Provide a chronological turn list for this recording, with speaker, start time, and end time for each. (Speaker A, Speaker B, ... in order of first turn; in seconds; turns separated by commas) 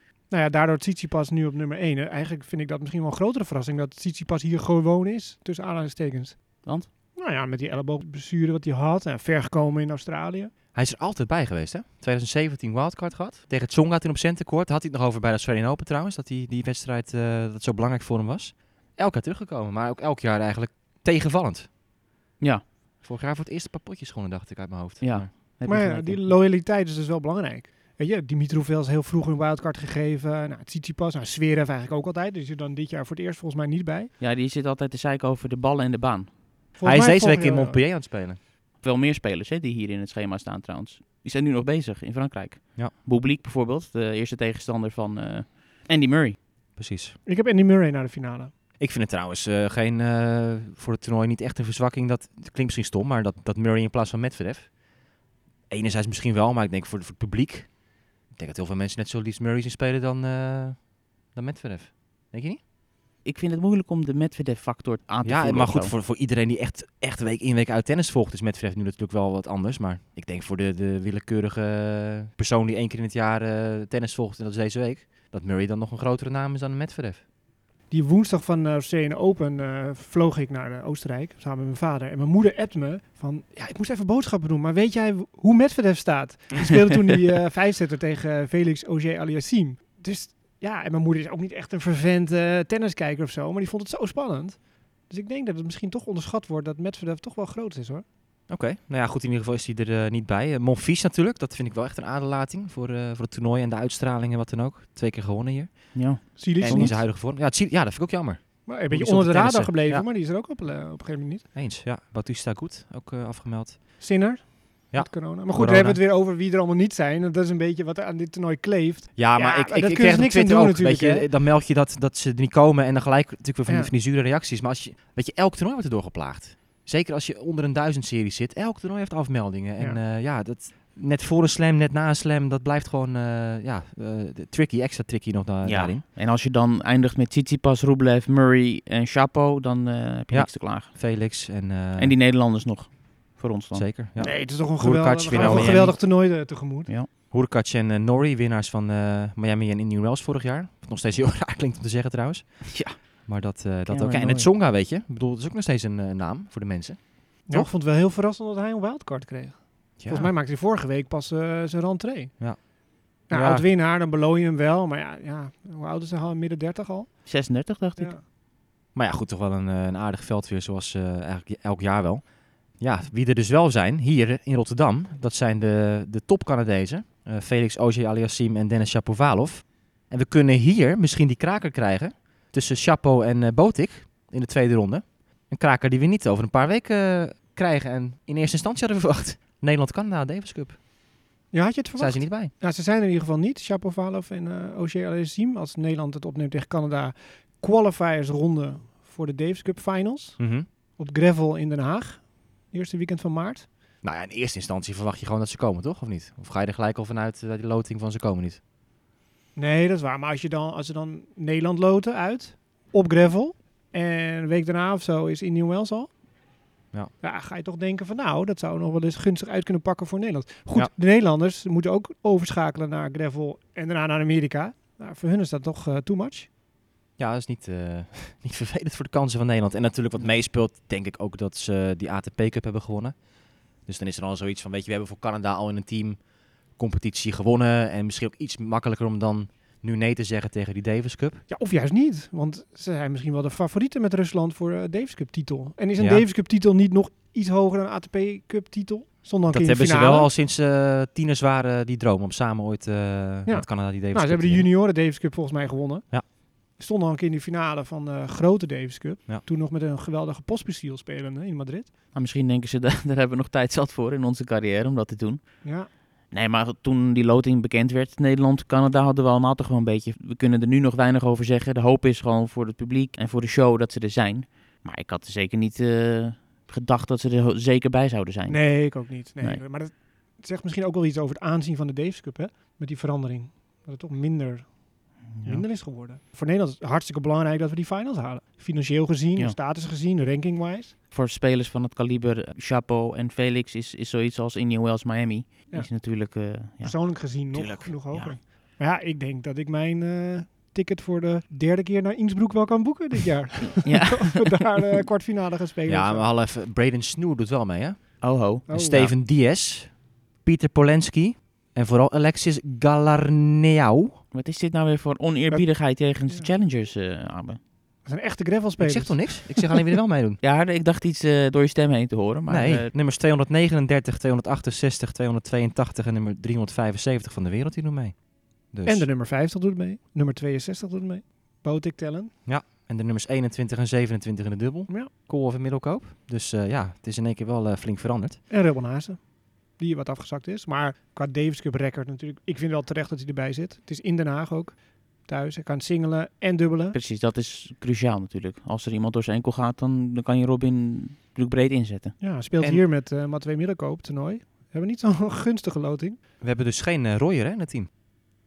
Speaker A: 0.3-10.5, Speaker B: 10.7-21.7, Speaker C: 22.4-22.6, Speaker B: 23.0-25.3, Speaker C: 25.0-26.3, Speaker A: 25.6-34.1, Speaker C: 34.2-36.4, Speaker A: 36.8-37.8, Speaker B: 36.8-38.4, Speaker C: 38.8-46.4, Speaker B: 46.8-47.2, Speaker A: 47.2-48.5, Speaker B: 48.8-54.8, Speaker B: 55.7-57.7, Speaker B: 58.3-62.6, Speaker C: 63.2-65.9, Speaker B: 65.2-77.2, Speaker A: 77.9-98.0, Speaker B: 98.5-110.0, Speaker C: 105.9-107.0, Speaker A: 106.4-107.0, Speaker A: 108.7-111.5, Speaker B: 111.5-114.0, Speaker A: 114.0-121.3, Speaker B: 114.9-116.0, Speaker B: 119.2-136.0, Speaker A: 123.7-123.9, Speaker C: 135.6-141.0, Speaker B: 140.3-142.1, Speaker C: 142.0-143.9, Speaker B: 143.7-145.9, Speaker A: 144.2-146.9, Speaker C: 145.3-147.1, Speaker B: 147.3-157.7, Speaker C: 152.7-153.2, Speaker C: 153.9-154.5, Speaker A: 157.5-162.6, Speaker B: 160.0-160.3, Speaker B: 162.4-163.7, Speaker A: 163.3-167.4, Speaker C: 167.2-168.1, Speaker A: 168.0-168.2, Speaker B: 168.9-190.8, Speaker A: 191.5-203.7, Speaker B: 192.0-192.5, Speaker B: 200.4-200.7, Speaker B: 204.0-208.6, Speaker A: 209.6-216.1, Speaker A: 217.2-226.5, Speaker B: 227.2-233.2, Speaker B: 233.8-241.4, Speaker A: 241.5-250.3, Speaker B: 246.0-246.2, Speaker B: 249.5-254.7, Speaker A: 253.4-261.9, Speaker C: 262.1-279.6, Speaker A: 265.6-265.9, Speaker A: 278.5-290.9, Speaker C: 285.3-285.6, Speaker C: 291.1-297.1, Speaker A: 295.7-296.0, Speaker A: 296.8-306.2, Speaker B: 297.5-298.4, Speaker C: 303.8-304.5, Speaker B: 305.9-314.2, Speaker C: 308.2-309.1, Speaker A: 308.7-309.1, Speaker C: 314.3-317.6, Speaker A: 318.0-319.6, Speaker B: 318.8-320.4, Speaker C: 320.4-322.9, Speaker B: 322.5-329.1, Speaker A: 328.8-332.3, Speaker B: 332.4-338.4, Speaker A: 338.5-347.0, Speaker C: 346.9-352.2, Speaker A: 352.2-356.2, Speaker B: 356.4-357.9